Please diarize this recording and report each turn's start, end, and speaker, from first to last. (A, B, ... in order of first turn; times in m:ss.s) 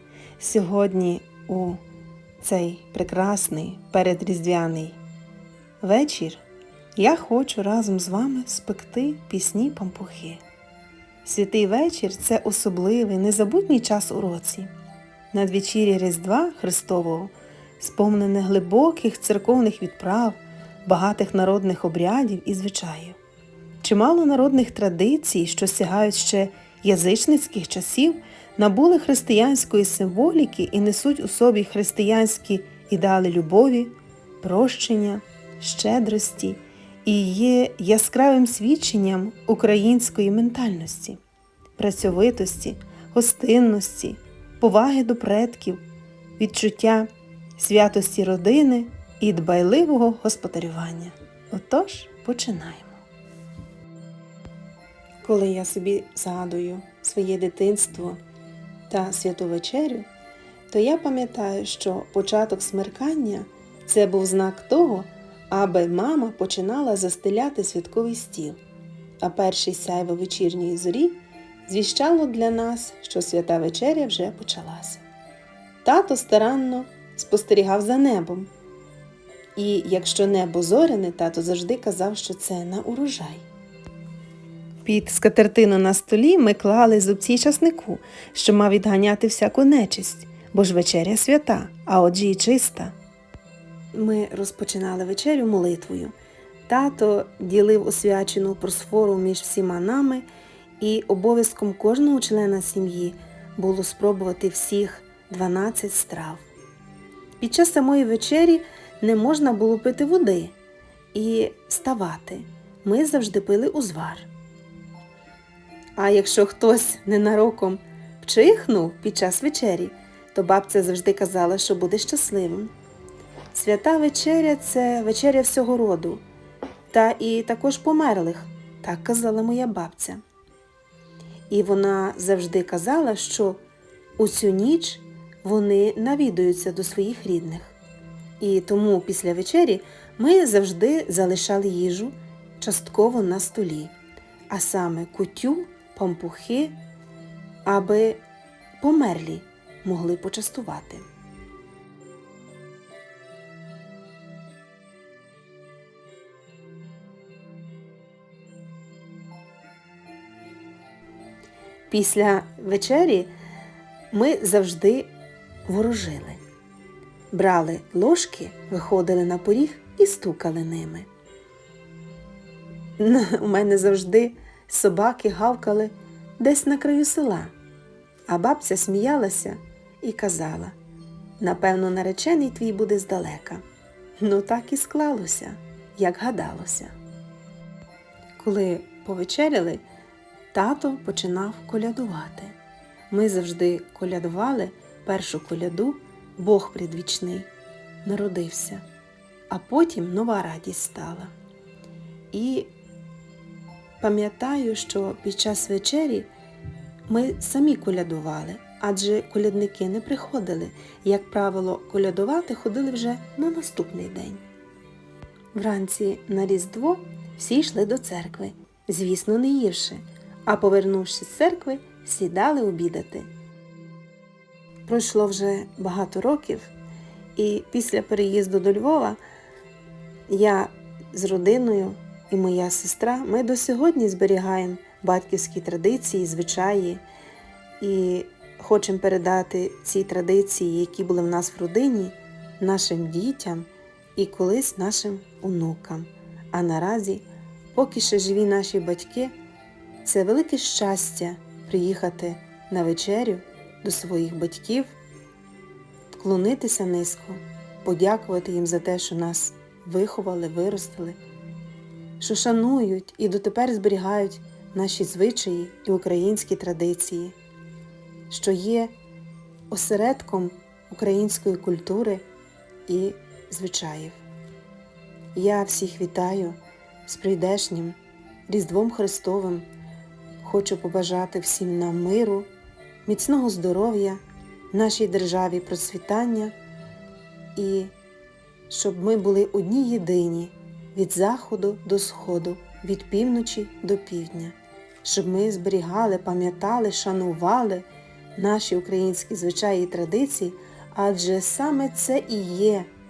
0:00.4-0:01.8 A
0:02.4-0:05.0 A
0:05.8-0:06.4 A
0:07.0-0:10.4 A
0:11.2-0:14.7 A
0:15.3-0:23.2 A
0:23.8-0:41.2 A
0:41.8-0:45.8 A
0:46.4-0:53.0 A
0:55.2-0:58.2 A
0:58.9-1:00.1 A
1:00.7-1:08.6 A
1:09.2-1:15.0 A
1:15.8-1:18.5 A
1:19.6-1:23.5 A
1:24.8-1:33.0 A
1:33.9-1:36.2 A
1:36.7-1:40.3 A
1:40.8-1:46.5 A
1:47.4-1:50.6 A
1:51.1-1:54.3 A
1:56.0-2:02.7 A
2:03.5-2:06.2 A
2:06.9-2:10.2 A
2:11.5-2:13.6 A
2:14.2-2:17.8 A
2:18.4-2:23.9 A
2:24.5-2:26.8 A
2:27.6-2:28.2 A
2:28.8-2:31.0 A
2:41.9-2:43.3 A
2:44.1-2:45.1 A
2:45.7-2:46.4 A
2:47.3-2:51.1 A
2:53.0-2:57.5 A
2:58.3-3:00.8 A
3:01.4-3:03.6 A
3:04.2-3:06.9 A
3:08.4-3:09.8 A
3:10.5-3:12.6 A
3:13.1-3:17.5 A
3:18.0-3:18.8 A
3:19.5-3:21.3 A
3:22.3-3:22.7 A
3:24.0-3:26.3 A
3:27.1-3:34.4 A
3:35.6-3:43.3 A
3:44.9-3:46.7 A
3:47.4-3:49.2 A
3:50.3-3:57.0 A
3:57.8-4:09.3 A
4:10.0-4:15.0 A
4:16.1-4:21.2 A
4:22.2-4:27.4 A
4:28.3-4:28.9 A
4:29.7-4:32.3 A
4:32.9-4:34.2 A
4:35.3-4:39.7 A
4:40.4-4:42.5 A
4:43.0-4:44.2 A
4:44.7-4:46.6 A
4:47.6-4:47.9 A
4:48.7-5:02.9 A